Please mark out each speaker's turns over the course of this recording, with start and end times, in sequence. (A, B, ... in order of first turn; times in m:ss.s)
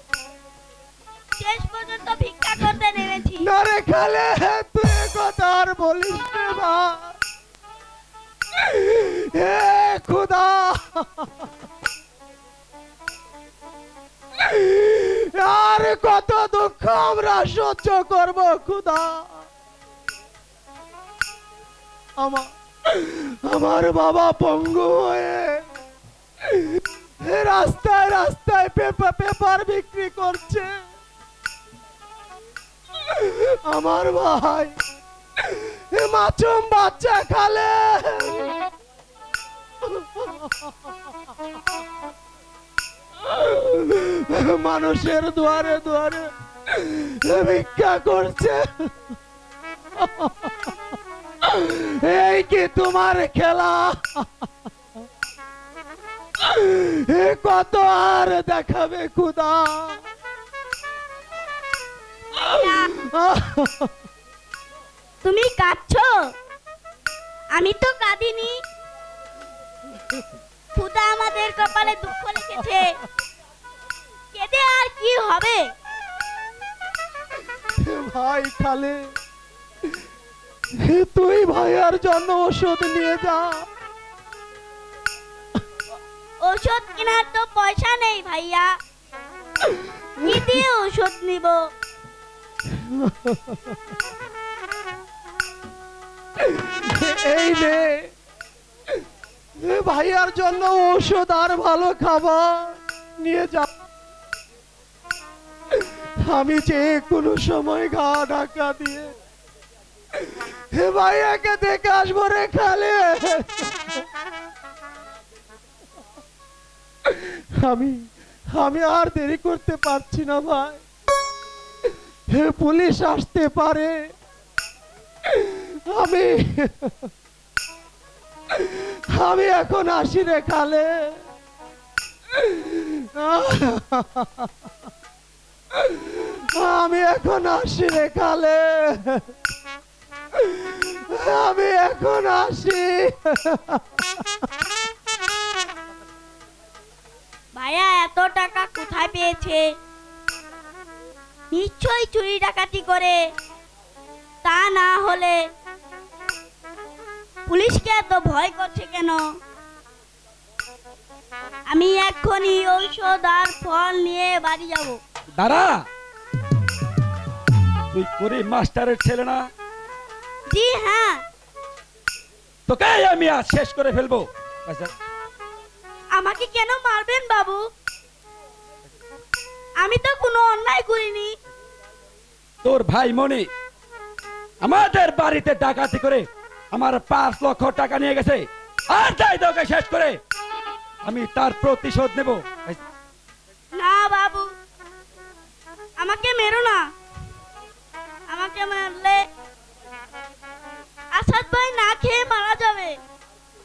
0:01.4-0:03.5 A
0:03.4-0:07.2 B
0:08.7-0:11.3 B
0:14.4-0:19.4 B
0:22.2-0:25.6 B
0:26.5-0:30.8 B
0:33.2-0:34.8 B
0:35.5-0:38.5 B
0:39.8-0:40.6 B
0:43.2-0:49.1 B
0:50.0-0:50.5 B
0:51.4-0:54.3 B
0:56.4-1:00.0 B
1:02.4-1:02.9 A
1:03.0-1:03.9 B
1:05.2-1:06.3 A
1:07.6-1:08.6 A
1:10.8-1:12.9 A
1:14.3-1:15.7 A
1:17.8-1:19.2 B
1:20.8-1:23.7 B
1:26.4-1:28.7 A
1:30.2-1:31.7 A
1:32.7-1:33.6 B
1:36.5-1:38.1 B
1:39.6-1:43.7 B
1:46.2-1:49.1 B
1:50.7-1:53.7 B
1:57.0-2:00.8 B
2:02.3-2:04.1 B
2:05.3-2:07.1 B
2:08.6-2:11.2 B
2:12.4-2:14.5 B
2:15.9-2:19.2 B
2:20.4-2:23.8 B
2:27.5-2:29.7 A
2:31.5-2:33.2 A
2:34.4-2:35.4 A
2:37.5-2:39.2 A
2:41.7-2:45.0 A
2:45.4-2:45.8 C
2:47.9-2:49.4 C
2:50.5-2:51.2 A
2:52.7-2:54.9 C
2:56.1-2:57.6 A
2:59.8-3:01.3 A
3:02.6-3:03.5 C
3:04.6-3:10.2 C
3:11.0-3:12.8 C
3:13.8-3:14.5 A
3:16.0-3:16.8 A
3:18.3-3:19.2 A
3:21.1-3:23.0 A